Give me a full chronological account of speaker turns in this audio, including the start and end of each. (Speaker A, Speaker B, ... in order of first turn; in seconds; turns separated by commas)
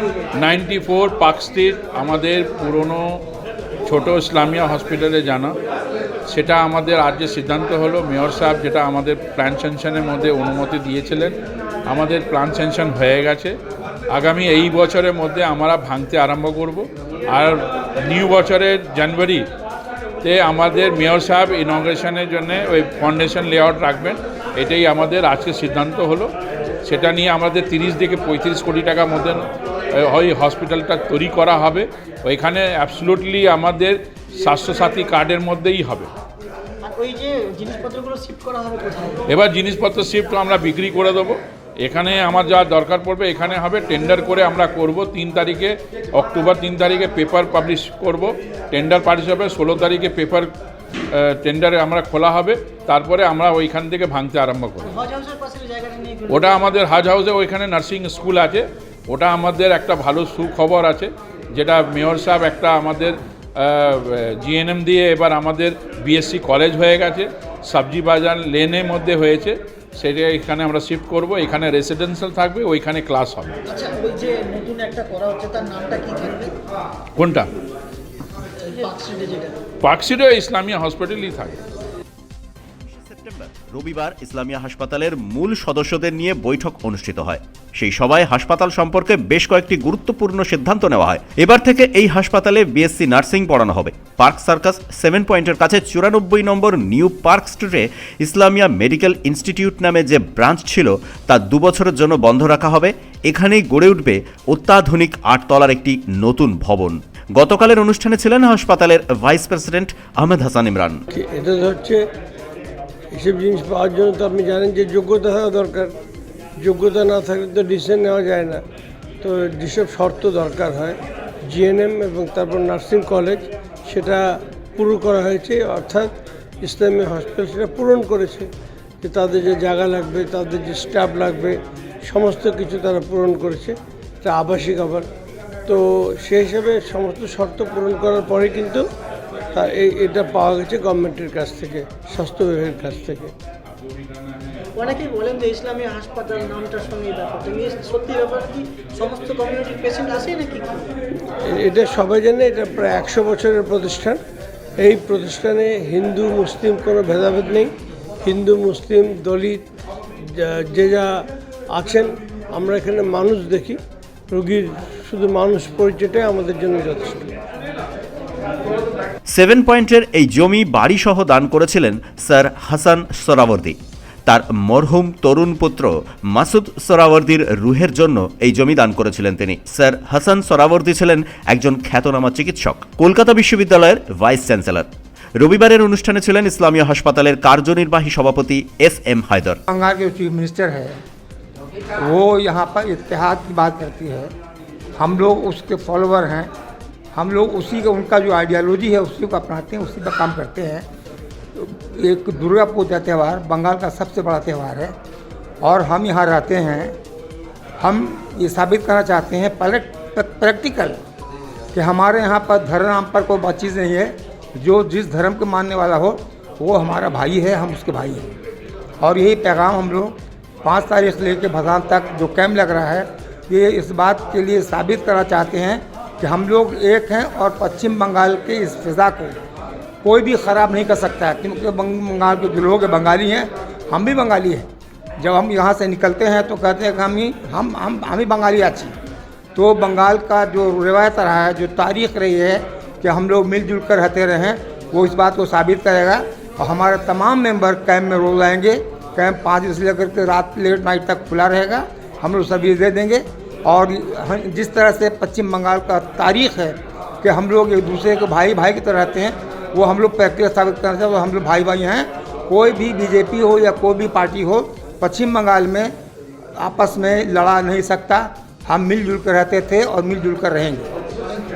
Speaker A: 0.4-3.2, Speaker A: 3.9-5.5, Speaker A: 6.2-13.6, Speaker A: 14.1-19.5, Speaker A: 20.2-36.1, Speaker B: 36.8-39.2, Speaker A: 39.3-50.5, Speaker A: 51.1-55.0, Speaker B: 54.8-56.7, Speaker A: 56.3-73.6, Speaker B: 73.7-76.5, Speaker A: 77.2-77.5, Speaker B: 78.6-79.6, Speaker A: 79.8-81.6, Speaker C: 82.8-111.0, Speaker D: 111.1-112.0, Speaker D: 113.1-115.9, Speaker D: 116.6-118.6, Speaker D: 119.2-128.5, Speaker D: 129.0-135.1, Speaker D: 135.7-138.8, Speaker D: 139.5-143.3, Speaker B: 144.7-150.9, Speaker D: 151.4-154.2, Speaker D: 154.8-157.7, Speaker D: 158.2-159.7, Speaker D: 160.3-161.1, Speaker D: 161.7-163.8, Speaker D: 164.3-167.3, Speaker C: 169.3-189.6, Speaker E: 189.7-191.0, Speaker E: 192.0-194.3, Speaker E: 195.0-196.5, Speaker E: 197.1-200.8, Speaker E: 201.6-204.9, Speaker E: 205.6-207.0, Speaker E: 207.8-211.0, Speaker E: 211.7-218.3, Speaker E: 219.0-229.3, Speaker E: 230.0-234.7, Speaker E: 235.2-238.9, Speaker E: 239.5-265.9, Speaker E: 266.6-270.9